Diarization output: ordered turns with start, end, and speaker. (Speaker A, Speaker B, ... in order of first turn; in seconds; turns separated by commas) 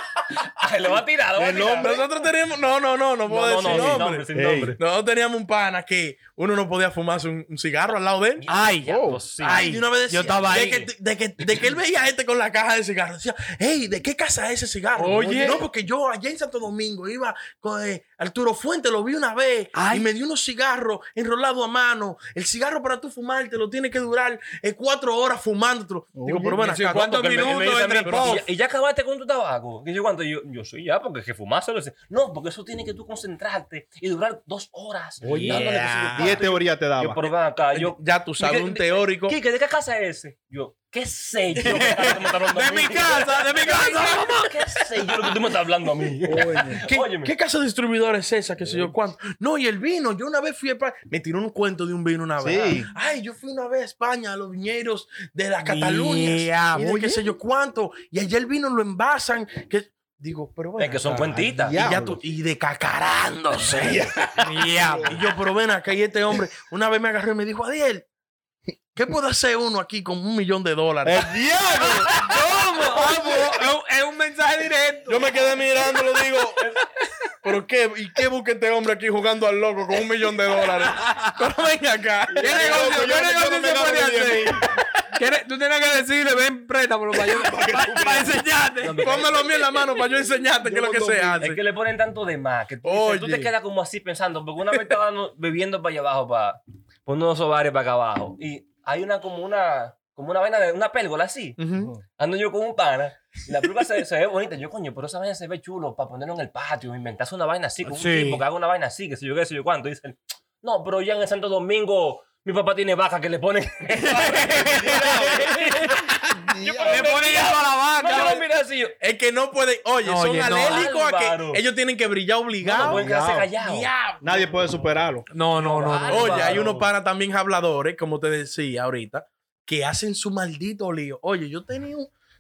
Speaker A: 0.2-2.0, Speaker B: 1.4-2.0, Speaker C: 1.8-4.3, Speaker A: 3.3-4.8, Speaker B: 3.6-4.8, Speaker C: 4.8-28.4, Speaker A: 8.4-9.8, Speaker D: 8.5-10.9, Speaker A: 10.5-10.8, Speaker D: 14.9-15.6, Speaker D: 19.8-20.1, Speaker B: 26.1-26.6, Speaker D: 26.6-28.4, Speaker A: 26.9-47.3, Speaker B: 35.2-37.2, Speaker D: 35.2-35.7, Speaker C: 35.4-36.5, Speaker C: 37.7-39.4, Speaker D: 41.6-44.9, Speaker B: 46.3-46.9, Speaker C: 46.8-64.3, Speaker B: 52.4-52.9, Speaker D: 55.6-56.9, Speaker B: 56.8-57.3, Speaker A: 60.8-61.8, Speaker B: 61.1-62.2, Speaker B: 63.6-65.2, Speaker D: 64.4-65.2, Speaker C: 65.1-68.1, Speaker C: 68.9-71.2, Speaker B: 71.0-72.2, Speaker D: 71.8-75.5, Speaker C: 75.1-76.6, Speaker A: 76.6-76.9, Speaker C: 77.4-82.9, Speaker D: 80.8-81.2, Speaker B: 82.3-84.6, Speaker D: 82.4-84.6, Speaker D: 85.1-89.2, Speaker B: 87.2-88.4, Speaker A: 88.8-89.4, Speaker C: 89.0-91.6, Speaker B: 90.6-91.5, Speaker A: 91.4-101.6, Speaker C: 92.8-93.5, Speaker C: 101.6-101.9, Speaker A: 102.2-116.0, Speaker D: 107.9-108.4, Speaker D: 114.1-116.0, Speaker B: 114.9-115.5, Speaker B: 116.4-117.2, Speaker A: 116.6-119.0, Speaker D: 116.9-118.4, Speaker C: 118.2-118.4, Speaker C: 119.0-123.1, Speaker D: 120.0-120.9, Speaker A: 120.5-121.6, Speaker B: 122.6-123.5, Speaker A: 122.7-123.9, Speaker C: 123.6-124.7, Speaker B: 124.2-125.3, Speaker D: 125.3-126.7, Speaker A: 125.6-126.9, Speaker C: 126.1-132.1